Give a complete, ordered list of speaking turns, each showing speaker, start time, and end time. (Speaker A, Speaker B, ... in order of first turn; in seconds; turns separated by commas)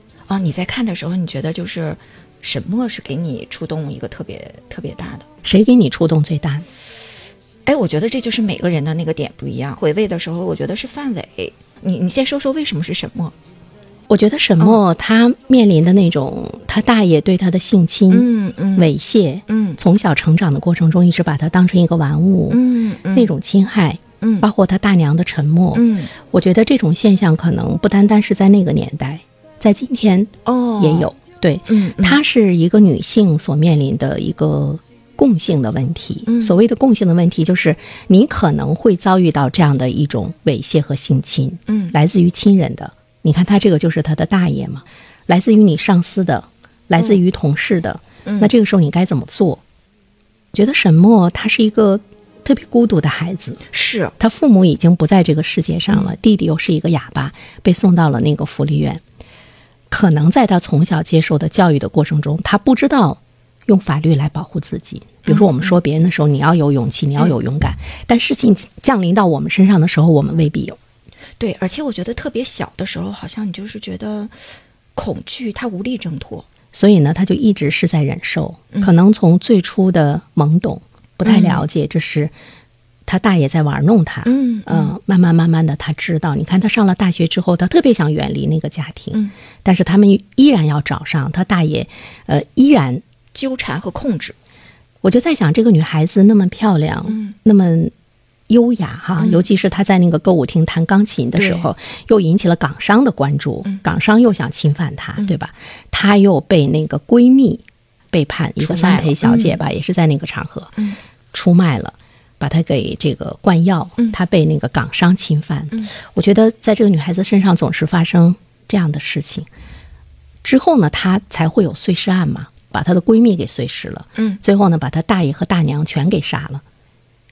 Speaker A: 0.3-5.2, Speaker B: 5.4-6.7, Speaker A: 7.7-13.3, Speaker B: 14.1-22.6, Speaker A: 18.1-18.9, Speaker A: 19.5-19.8, Speaker A: 22.5-23.3, Speaker B: 23.1-49.6, Speaker A: 24.2-24.5, Speaker A: 25.7-26.1, Speaker A: 30.4-31.1, Speaker A: 31.7-32.2, Speaker A: 36.3-36.6, Speaker A: 41.7-42.0, Speaker A: 48.2-48.5, Speaker B: 50.5-53.6, Speaker A: 53.7-54.1, Speaker B: 54.2-59.0, Speaker B: 59.9-70.8, Speaker A: 65.2-65.8, Speaker A: 71.4-74.3, Speaker A: 75.0-76.5, Speaker B: 76.7-82.3, Speaker A: 81.2-81.6, Speaker B: 83.1-93.0, Speaker A: 84.2-85.0, Speaker A: 93.3-94.4, Speaker B: 95.0-97.9, Speaker A: 97.1-97.3, Speaker B: 98.5-110.7, Speaker A: 99.2-99.5, Speaker A: 101.4-101.7, Speaker A: 108.6-109.6, Speaker B: 111.3-119.5, Speaker B: 120.4-126.6